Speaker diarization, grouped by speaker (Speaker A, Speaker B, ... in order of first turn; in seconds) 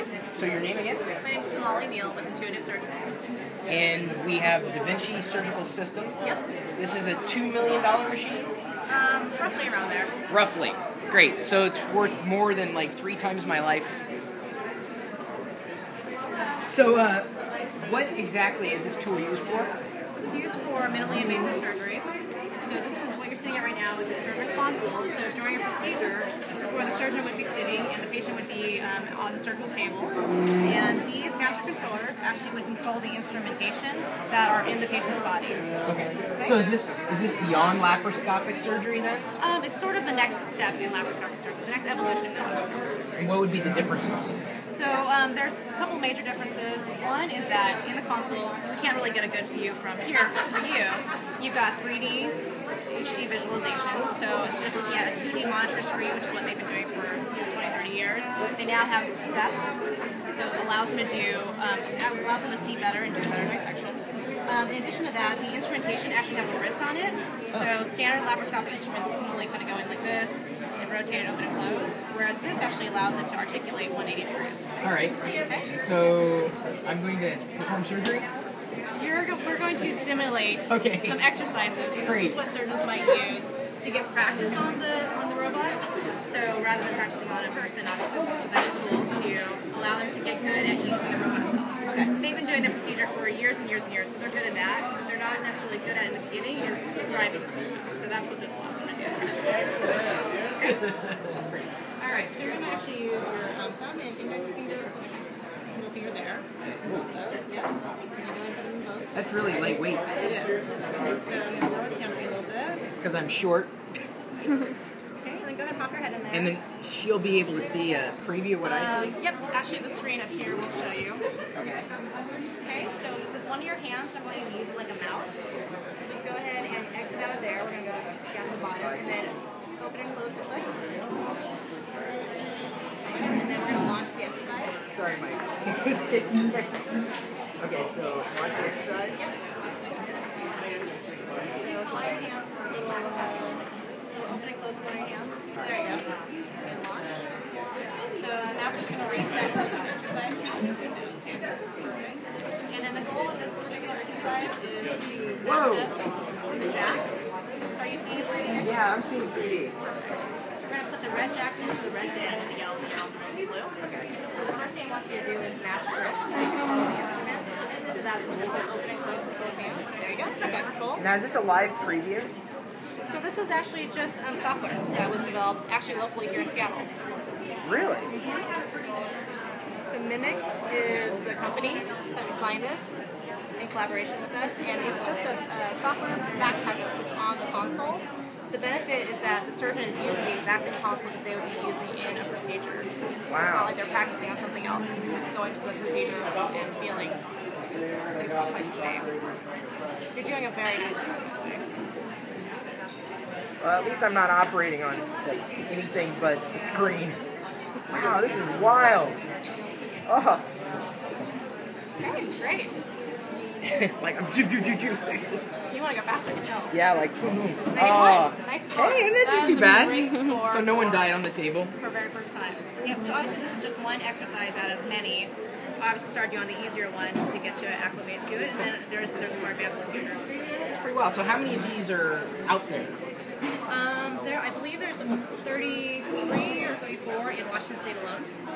Speaker A: 0.3-1.0, 3.7-6.2, 6.8-8.5, 10.3-14.0, 16.6-17.3, 17.8-19.7, 35.8-39.2, 43.2-44.3, 74.8-75.2, 75.8-78.3, 80.7-81.2, 82.1-82.4, 100.6-101.7, 109.1-110.0, 113.0-113.7, 116.3-119.2, 121.5-121.8, 128.8-129.3, 134.9-136.8, 137.6-139.2, 155.4-155.9, 158.6-159.8, 163.8-164.1, 171.0-172.3, 177.6-178.1, 193.3-193.7, 203.6-207.2, 207.9-209.2, 210.1-210.4, 213.6-215.5, 216.7-221.7, 230.7-232.9
Speaker B: 1.2-3.1, 8.9-10.1, 20.1-35.7, 39.4-43.3, 44.7-52.3, 52.9-59.7, 60.3-74.6, 75.2-75.7, 78.9-100.8, 102.0-112.9, 115.2-116.6, 118.6-121.2, 122.6-130.7, 133.1-134.9, 141.5-146.0, 146.6-147.2, 148.1-159.1, 160.5-163.7, 164.3-171.0, 173.1-176.9, 178.1-179.2, 179.9-182.9, 183.6-197.2, 198.2-199.1, 200.1-201.7, 212.0-212.7, 215.7-216.8, 217.7-221.2, 221.8-230.7, 233.7-238.3